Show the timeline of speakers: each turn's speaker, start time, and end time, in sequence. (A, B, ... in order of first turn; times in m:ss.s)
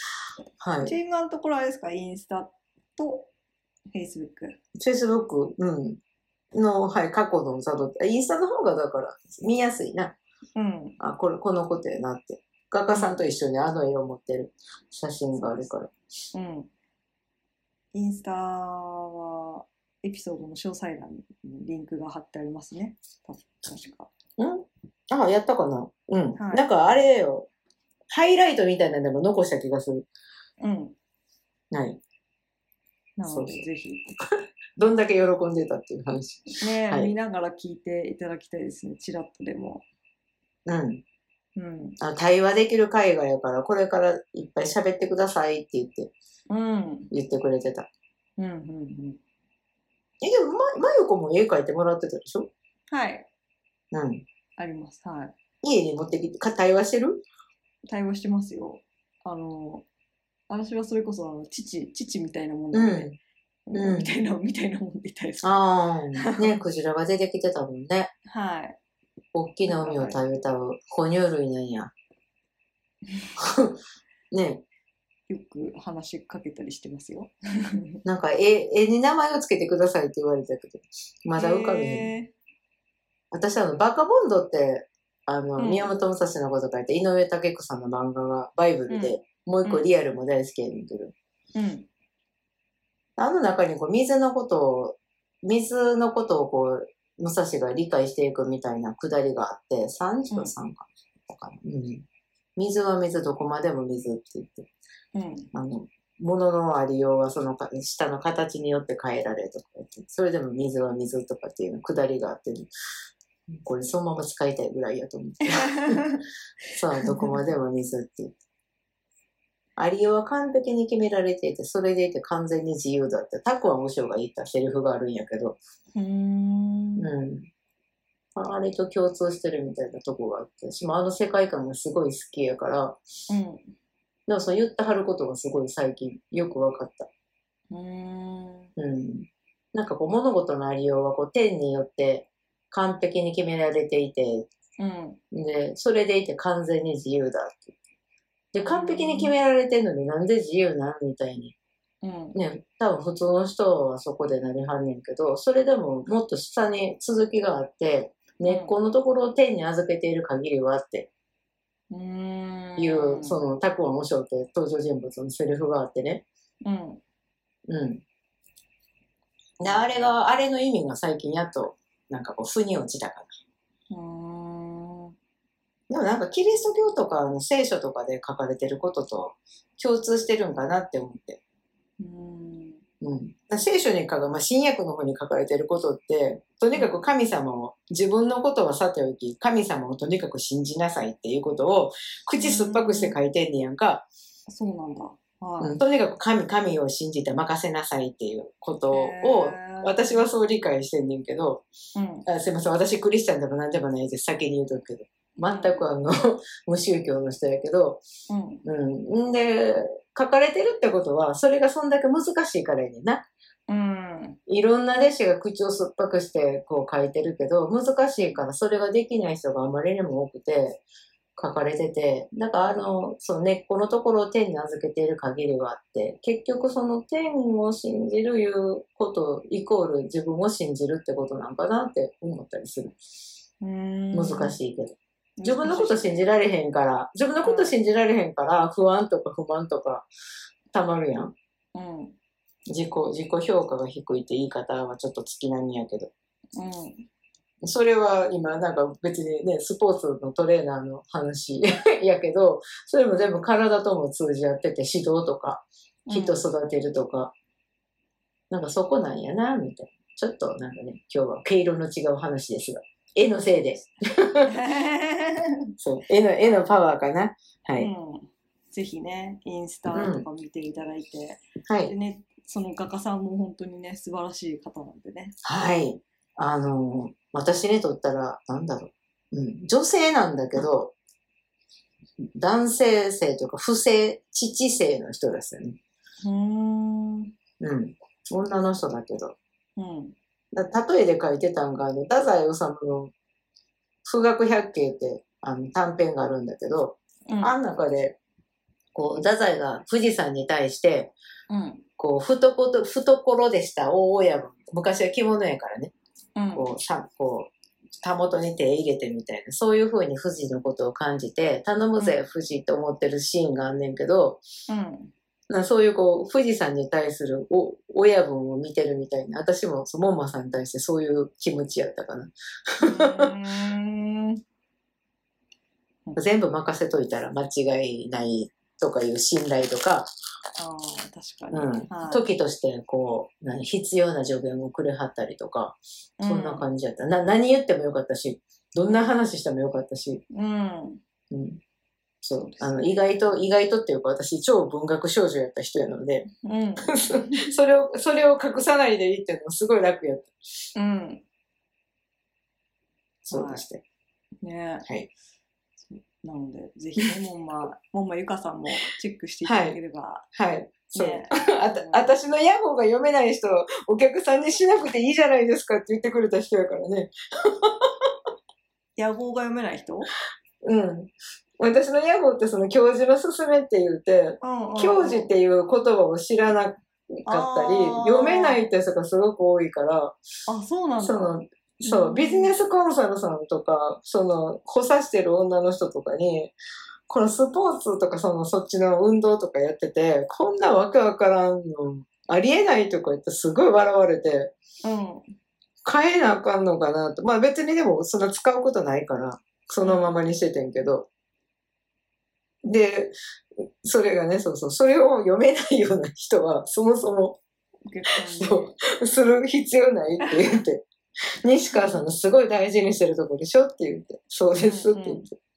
0:00.6-0:01.0 A
0:00.8-0:03.3 B
0:03.9-0:04.6 B
0:04.8-0:06.0 A
0:06.5-0:10.2 A
0:10.6-0:11.0 B
0:11.0-0:15.9 A
0:12.9-0:13.2 B
0:16.3-0:16.7 B
0:17.9-0:24.1 B
0:24.4-0:27.5 A
0:26.4-0:27.0 B
0:28.1-0:30.1 A
0:30.6-0:31.0 B
0:31.7-0:32.0 A
0:33.2-0:34.0 B
0:33.3-0:33.7 A
0:34.8-0:37.1 A
0:36.6-0:39.9 B
0:40.7-0:41.0 A
0:41.6-0:42.0 B
0:42.0-0:46.1 A
0:46.5-0:47.1 B
0:47.1-0:47.9 A
0:48.4-0:49.2 B
0:50.2-0:52.5 A
0:52.9-0:53.3 B
0:53.9-0:54.2 A
0:54.6-0:55.3 B
0:55.6-0:57.2 A
0:57.9-0:59.9 B
1:00.5-1:03.1 B
1:02.7-1:03.2 A
1:03.7-1:05.7 B
1:03.7-1:04.1 A
1:05.4-1:08.1 A
1:06.2-1:06.5 B
1:08.3-1:08.8 B
1:09.3-1:11.9 A
1:09.7-1:10.2 B
1:13.4-1:13.8 A
1:14.3-1:14.6 A
1:15.3-1:18.0 B
1:18.0-1:22.1 A
1:21.4-1:22.3 B
1:23.3-1:31.2 A
1:25.6-1:25.9 B
1:28.9-1:29.9 B
1:31.6-1:31.9 B
1:33.2-1:42.0 A
1:42.6-1:44.7 A
1:45.1-1:45.5 B
1:45.5-1:52.7 A
1:53.5-1:56.0 A
1:55.6-1:56.2 B
1:56.8-1:58.3 A
1:57.0-1:57.3 B
1:59.8-2:05.6 A
2:06.0-2:07.1 B
2:07.0-2:07.5 A
2:08.4-2:13.0 A
2:13.3-2:13.7 B
2:14.3-2:17.1 A
2:17.7-2:18.7 B
2:18.8-2:24.5 A
2:24.8-2:25.2 B
2:25.3-2:27.8 A
2:28.5-2:31.6 A
2:28.6-2:29.3 B
2:32.0-2:32.4 B
2:32.4-2:41.1 A
2:38.4-2:38.8 B
2:41.9-2:43.4 B
2:42.8-2:46.2 A
2:46.6-2:47.0 B
2:47.7-2:48.0 A
2:49.6-2:53.3 A
2:49.7-2:50.1 B
2:53.9-2:55.1 B
2:55.9-3:01.4 A
3:02.0-3:02.8 B
3:03.0-3:14.1 A
3:06.7-3:07.0 B
3:12.4-3:13.2 B
3:14.5-3:15.8 B
3:15.6-3:21.6 A
3:18.9-3:20.3 B
3:22.0-3:22.3 B
3:22.3-3:28.0 A
3:25.4-3:25.8 B
3:28.3-3:28.6 B
3:28.7-3:33.3 A
3:33.7-3:34.4 B
3:34.5-3:40.8 A
3:41.4-3:53.0 A
3:53.6-3:54.6 B
3:54.1-4:00.1 A
3:55.4-3:56.3 B
3:57.4-3:57.8 B
4:00.7-4:01.3 A
4:01.8-4:02.2 B
4:02.7-4:06.1 A
4:06.6-4:07.0 B
4:07.6-4:17.3 A
4:16.1-4:16.4 B
4:18.5-4:24.5 A
4:24.5-4:25.5 B
4:25.8-4:27.9 A
4:26.4-4:26.7 B
4:27.8-4:35.4 B
4:29.9-4:30.3 A
4:31.7-4:31.9 A
4:35.4-4:41.0 A
4:42.4-4:45.8 A
4:46.2-4:47.3 B
4:47.6-4:49.4 A
4:49.8-4:50.2 B
4:50.5-4:53.1 A
4:54.0-4:58.2 A
4:57.3-4:57.6 B
4:58.9-5:01.2 A
5:01.5-5:01.8 B
5:02.0-5:05.9 A
5:06.4-5:06.7 B
5:06.6-5:14.4 A
5:14.7-5:15.1 B
5:15.5-5:22.3 A
5:22.8-5:24.4 B
5:22.8-5:23.3 A
5:26.2-5:30.1 A
5:30.6-5:32.3 B
5:31.5-5:40.2 A
5:36.2-5:36.7 B
5:38.8-5:39.1 B
5:40.3-5:41.0 B
5:41.3-5:41.6 A
5:42.2-5:46.3 A
5:42.5-5:43.2 B
5:46.4-5:47.5 B
5:46.9-5:50.3 A
5:50.8-5:51.2 B
5:53.2-5:53.8 A
5:53.3-5:53.6 B
5:54.4-5:54.9 B
5:55.8-6:00.3 B
5:59.4-5:59.8 A
6:00.3-6:07.9 A
6:00.9-6:02.2 B
6:09.0-6:10.1 B
6:10.6-6:20.2 A
6:14.4-6:15.3 B
6:17.3-6:18.7 B
6:20.5-6:21.3 B
6:21.0-6:26.5 A
6:21.8-6:22.6 B
6:27.1-6:34.5 A
6:34.8-6:35.3 B
6:35.8-6:41.1 A
6:39.8-6:40.2 B
6:42.6-6:43.1 A
6:43.8-6:47.4 A
6:47.9-6:48.8 B
6:48.1-6:50.8 A
6:50.2-6:50.6 B
6:51.4-6:55.3 A
6:51.7-6:52.0 B
6:54.6-6:55.3 B